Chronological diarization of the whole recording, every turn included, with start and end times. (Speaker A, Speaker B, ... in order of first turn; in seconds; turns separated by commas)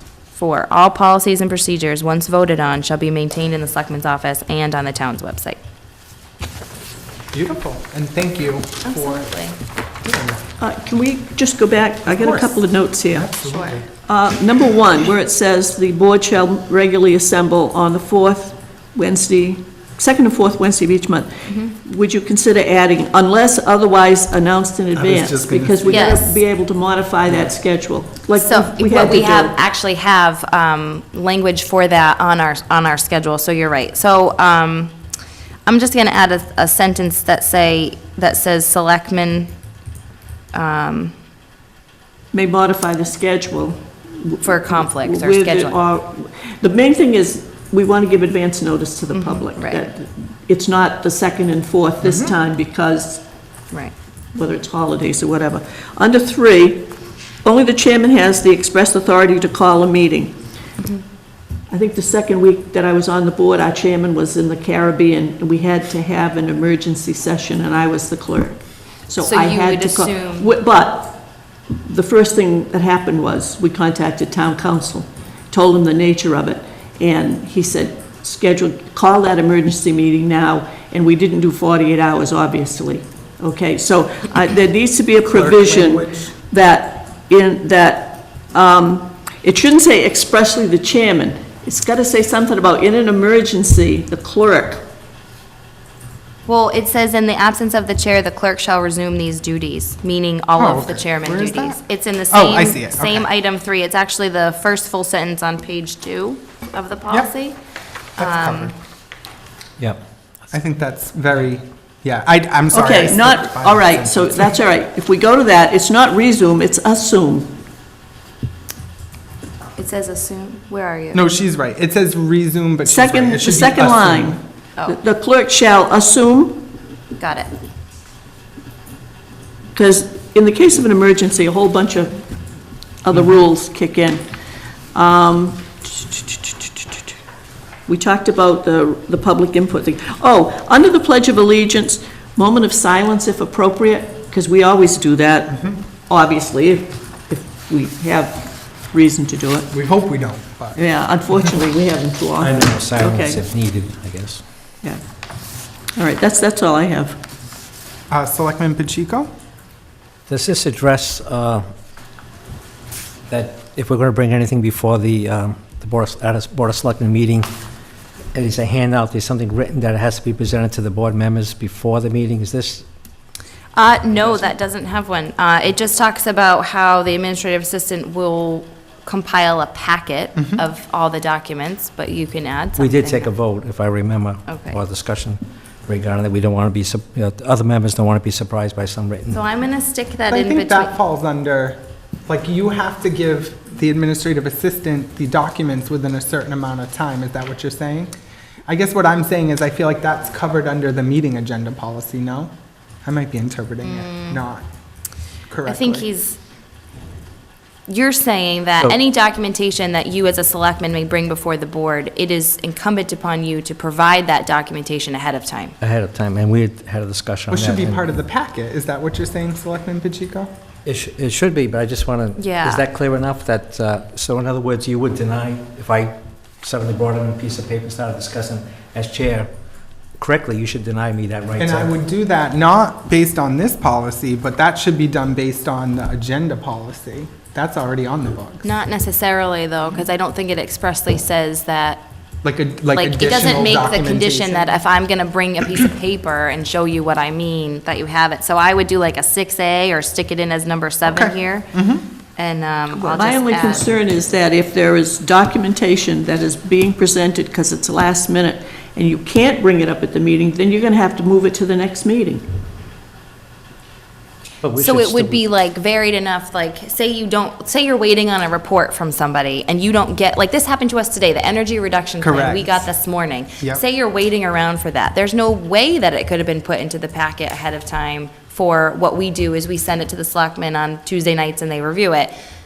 Speaker A: 0.3-5.6, Speaker B: 7.3-9.2, Speaker A: 8.8-9.6, Speaker B: 10.0-10.4, Speaker C: 10.6-13.3, Speaker B: 12.1-12.6, Speaker B: 13.1-13.8, Speaker A: 13.4-13.8, Speaker C: 14.0-29.6, Speaker A: 21.5-21.7, Speaker B: 24.9-26.1, Speaker A: 25.9-26.4, Speaker A: 28.3-34.9, Speaker A: 35.6-39.5, Speaker A: 40.5-41.1, Speaker C: 42.3-53.2, Speaker A: 44.4-45.8, Speaker A: 49.1-49.9, Speaker B: 52.0-52.3, Speaker C: 54.3-56.9, Speaker C: 57.4-60.4, Speaker A: 60.8-61.0, Speaker C: 61.7-71.2, Speaker A: 69.2-70.5, Speaker C: 71.8-94.8, Speaker B: 85.2-86.3, Speaker A: 96.5-107.6, Speaker B: 100.5-103.3, Speaker A: 108.2-108.7, Speaker B: 108.2-108.7, Speaker B: 110.5-114.5, Speaker C: 112.7-117.6, Speaker A: 119.8-121.2, Speaker B: 121.1-124.3, Speaker C: 122.8-126.7, Speaker A: 127.2-127.5, Speaker C: 129.7-132.2, Speaker C: 133.0-134.2, Speaker C: 134.9-137.0, Speaker C: 137.9-149.7, Speaker B: 149.7-150.8, Speaker C: 150.8-153.4, Speaker D: 152.4-154.4, Speaker C: 155.9-157.2, Speaker B: 158.1-159.3, Speaker D: 160.3-161.6, Speaker D: 163.3-167.5, Speaker D: 168.3-172.8, Speaker A: 173.7-183.3, Speaker B: 180.3-180.6, Speaker D: 182.8-189.4, Speaker A: 184.5-184.8, Speaker A: 189.3-190.9, Speaker B: 190.3-198.1, Speaker B: 198.7-202.5, Speaker B: 203.0-204.6, Speaker A: 203.8-204.4, Speaker B: 205.5-206.1, Speaker A: 205.7-206.4, Speaker A: 207.9-215.8, Speaker D: 215.8-218.1, Speaker B: 217.5-220.5, Speaker D: 220.8-229.5, Speaker A: 222.3-222.8, Speaker D: 230.2-231.9, Speaker B: 231.6-238.7, Speaker A: 238.6-242.0, Speaker B: 242.4-244.7, Speaker A: 242.9-251.7, Speaker B: 251.1-252.0, Speaker A: 252.4-253.9, Speaker C: 252.9-262.4, Speaker D: 264.6-265.4, Speaker A: 264.7-282.3, Speaker B: 272.2-272.9